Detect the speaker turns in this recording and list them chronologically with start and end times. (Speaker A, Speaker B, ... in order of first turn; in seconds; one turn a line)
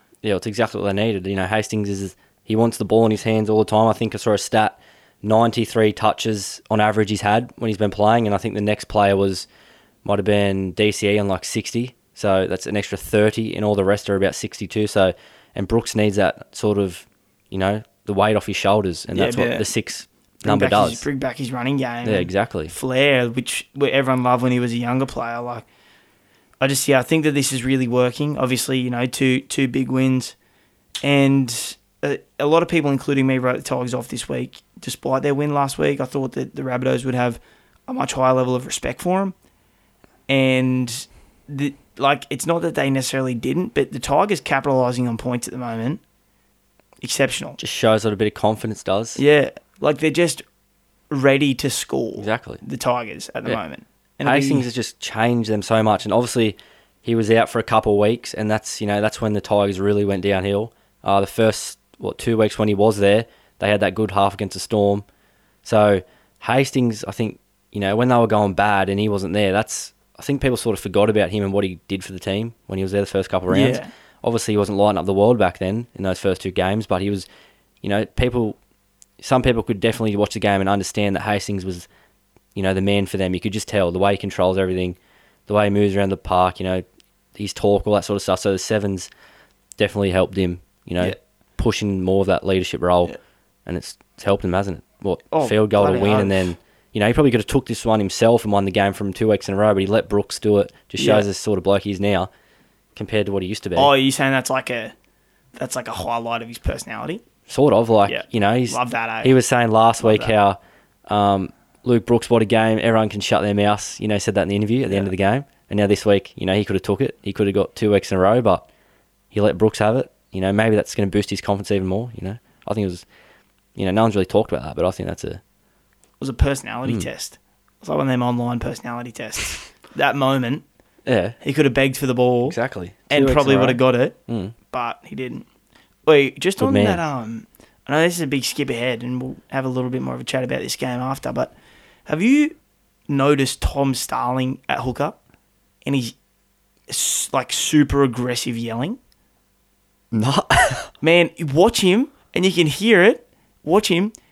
Speaker A: 0.2-9.5
Speaker A: 10.0-21.1
Speaker B: 19.1-19.7
Speaker B: 20.4-25.6
Speaker A: 22.1-22.7
Speaker B: 26.6-30.4
Speaker B: 31.0-39.3
Speaker B: 40.3-46.0
Speaker B: 47.0-47.6
Speaker A: 47.6-49.2
Speaker B: 49.2-50.4
Speaker B: 51.1-54.7
Speaker A: 52.2-52.6
Speaker A: 54.2-65.0
Speaker A: 65.7-77.3
Speaker B: 73.5-73.9
Speaker A: 77.8-78.6
Speaker A: 79.2-81.9
Speaker A: 82.5-86.8
Speaker A: 87.3-89.1
Speaker A: 89.8-93.1
Speaker A: 93.7-102.3
Speaker B: 95.3-96.5
Speaker B: 101.0-101.3
Speaker A: 103.0-103.9
Speaker B: 103.8-104.9
Speaker B: 105.5-107.2
Speaker A: 107.5-118.7
Speaker B: 108.1-109.4
Speaker B: 110.0-110.3
Speaker A: 119.3-123.1
Speaker A: 123.8-125.4
Speaker B: 126.2-130.6
Speaker A: 131.1-131.4
Speaker B: 131.4-132.6
Speaker A: 132.5-134.6
Speaker B: 133.1-134.2
Speaker B: 134.7-135.5
Speaker B: 136.1-141.5
Speaker A: 136.6-137.0
Speaker B: 142.1-142.6
Speaker B: 143.1-145.2
Speaker B: 145.8-146.2
Speaker B: 146.9-149.0
Speaker A: 150.1-150.9
Speaker B: 151.0-154.1